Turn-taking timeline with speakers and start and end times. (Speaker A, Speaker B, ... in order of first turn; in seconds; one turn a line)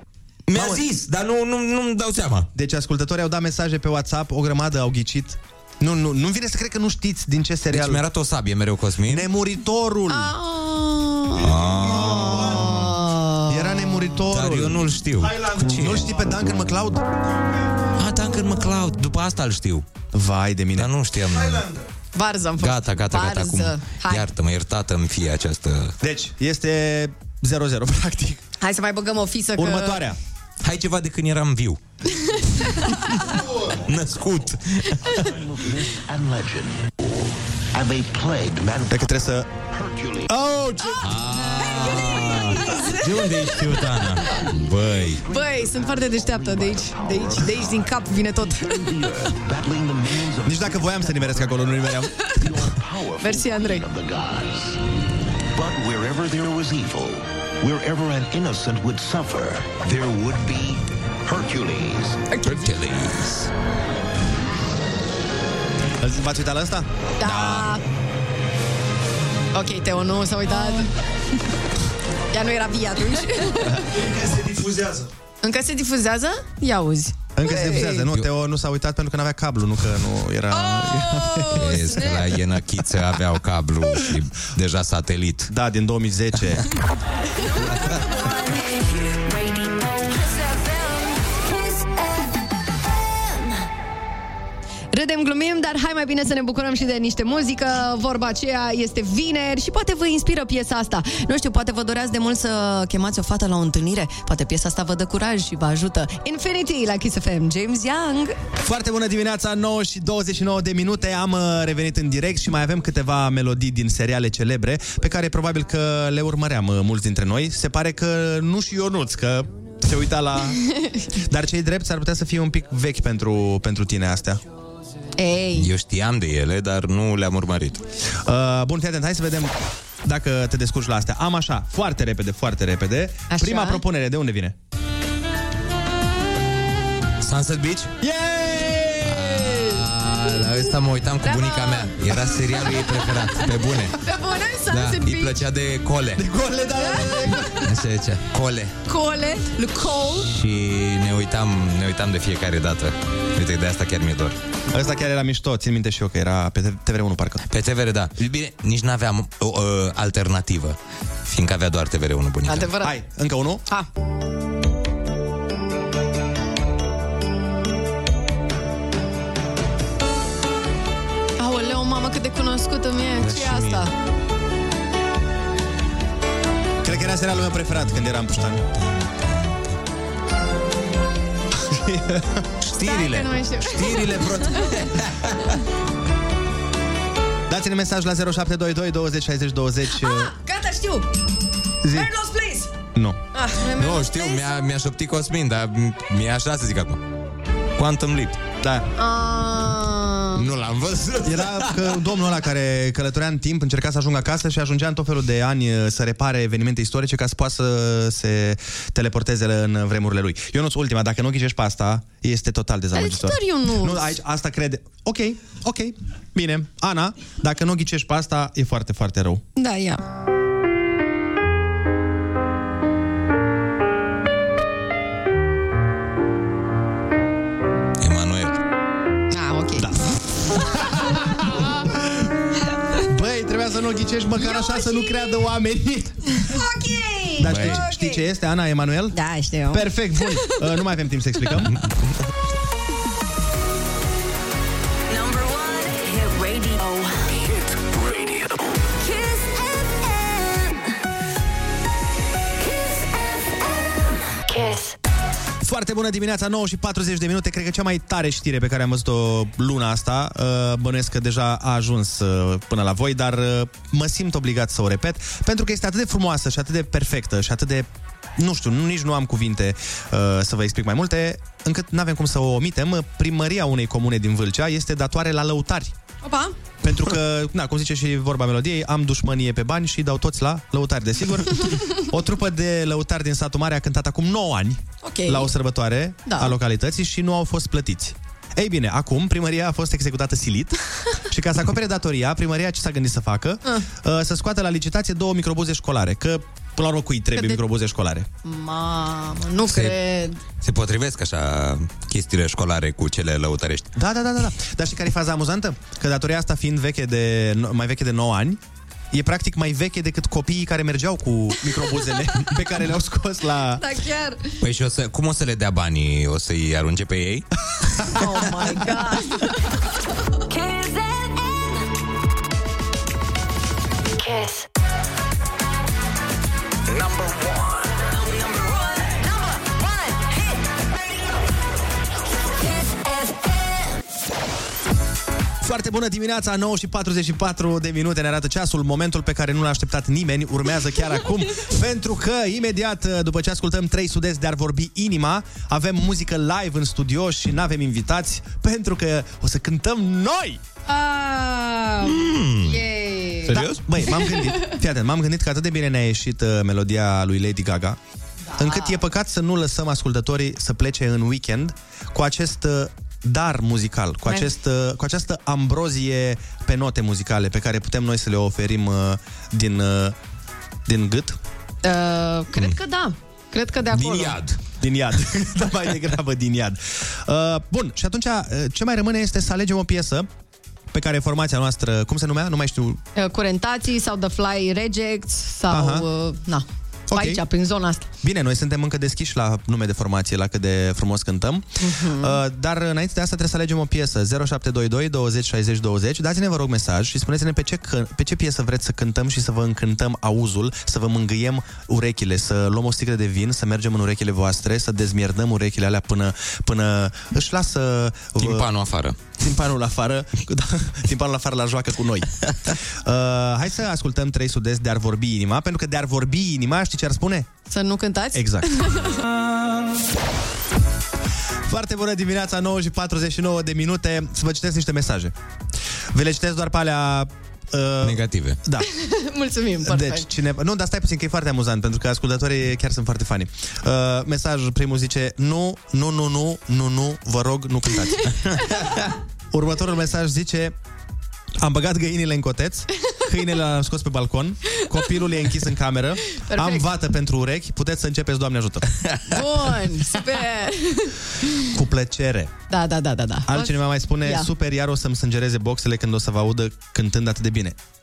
Speaker A: 0.5-2.5
Speaker B: 0.5-0.8
Speaker B: 2.5-8.0
Speaker A: 7.7-9.3
Speaker B: 9.1-10.3
Speaker C: 10.1-14.2
Speaker A: 11.4-12.7
Speaker B: 11.8-12.9
Speaker B: 13.5-17.0
Speaker A: 14.3-16.1
Speaker A: 18.0-19.9
Speaker B: 20.1-21.8
Speaker A: 20.8-21.6
Speaker C: 22.1-24.3
Speaker A: 22.6-25.9
Speaker B: 26.0-28.4
Speaker C: 28.6-30.1
Speaker B: 29.6-30.2
Speaker A: 30.6-31.8
Speaker C: 32.2-32.6
Speaker A: 33.9-35.0
Speaker D: 35.2-40.4
Speaker B: 38.9-39.5
Speaker B: 40.3-41.0
Speaker A: 41.0-45.2
Speaker C: 41.6-43.9
Speaker D: 44.3-54.8
Speaker C: 45.2-48.9
Speaker B: 50.4-52.2
Speaker C: 53.2-53.9
Speaker D: 55.5-62.2
Speaker C: 62.3-62.7
Speaker A: 62.4-63.5
Speaker B: 66.0-67.7
Speaker C: 67.2-67.8
Speaker C: 69.5-70.9
Speaker C: 72.3-73.8
Speaker B: 74.4-74.9
Speaker C: 75.4-78.1
Speaker B: 77.3-81.8
Speaker C: 80.5-82.3
Speaker A: 81.6-85.5
Speaker B: 85.5-86.6
Speaker E: 88.1-92.2
Speaker C: 94.9-108.4
Speaker B: 108.6-120.6
Speaker C: 120.7-121.0
Speaker B: 121.2-124.4
Speaker C: 125.2-125.7
Speaker A: 125.5-127.8
Speaker B: 128.2-134.6
Speaker C: 133.3-133.8
Speaker A: 137.2-137.9
Speaker B: 138.0-139.2
Speaker A: 139.0-144.0
Speaker C: 139.4-139.9
Speaker C: 141.2-142.1
Speaker C: 144.0-145.4
Speaker A: 144.7-146.2
Speaker B: 146.2-147.6
Speaker C: 146.7-147.5
Speaker A: 147.6-148.7
Speaker C: 148.8-150.3
Speaker A: 150.3-154.4
Speaker B: 154.7-157.4
Speaker A: 157.5-162.7
Speaker C: 162.4-163.0
Speaker B: 162.8-163.6
Speaker C: 171.4-173.9
Speaker A: 173.2-173.9
Speaker B: 176.8-178.6
Speaker B: 181.6-182.4
Speaker A: 182.6-185.3
Speaker C: 182.8-184.7
Speaker B: 187.5-190.3
Speaker C: 189.9-191.1
Speaker B: 191.8-192.1
Speaker C: 191.9-192.7
Speaker B: 192.9-193.2
Speaker C: 193.3-194.5
Speaker A: 193.8-197.0
Speaker A: 197.8-198.4
Speaker B: 198.6-198.9
Speaker C: 199.0-200.5
Speaker A: 200.3-201.9
Speaker B: 201.2-219.4
Speaker C: 212.9-214.2
Speaker C: 219.6-220.0
Speaker A: 228.0-228.6
Speaker C: 229.3-229.9
Speaker B: 230.7-231.7
Speaker B: 233.1-236.2
Speaker C: 234.4-235.3
Speaker C: 236.4-238.3
Speaker B: 237.4-239.2
Speaker A: 237.4-237.8
Speaker C: 239.1-240.6
Speaker B: 239.7-241.8
Speaker E: 245.1-247.2
Speaker E: 249.0-250.8
Speaker E: 252.6-253.2
Speaker E: 254.3-254.9
Speaker B: 255.6-275.9
Speaker C: 276.2-276.6
Speaker B: 276.8-290.7
Speaker C: 285.0-285.5
Speaker C: 286.2-286.6
Speaker B: 291.3-298.3
Speaker C: 297.3-297.6
Speaker C: 298.4-300.4
Speaker A: 299.7-299.9
Speaker A: 300.6-303.9
Speaker B: 303.9-308.6
Speaker B: 309.1-313.8
Speaker C: 313.8-314.6
Speaker A: 314.6-317.4
Speaker C: 318.1-319.6
Speaker E: 320.5-321.9
Speaker E: 324.2-324.6
Speaker E: 326.9-330.8
Speaker E: 332.5-333.9
Speaker B: 335.6-350.6
Speaker C: 350.9-354.7
Speaker A: 352.0-352.8
Speaker A: 353.5-353.8
Speaker B: 353.5-358.0
Speaker C: 358.5-359.0
Speaker B: 358.6-370.1
Speaker B: 370.9-371.4
Speaker C: 371.8-374.4
Speaker A: 373.9-374.6
Speaker B: 374.8-380.3
Speaker B: 380.9-383.0
Speaker C: 383.1-388.1
Speaker B: 385.7-386.1
Speaker B: 387.1-387.4
Speaker B: 388.2-408.7
Speaker C: 391.8-392.4
Speaker A: 408.4-409.2
Speaker B: 409.4-412.3
Speaker B: 413.0-417.5
Speaker C: 417.6-419.2
Speaker B: 418.3-418.7
Speaker B: 421.7-425.3
Speaker B: 426.1-428.9
Speaker A: 428.0-428.6
Speaker C: 428.8-430.3
Speaker B: 429.8-438.3
Speaker B: 439.5-440.7
Speaker B: 441.6-448.9
Speaker C: 446.5-446.9
Speaker C: 449.3-451.1
Speaker B: 451.7-452.5
Speaker C: 452.7-454.5
Speaker B: 453.5-457.8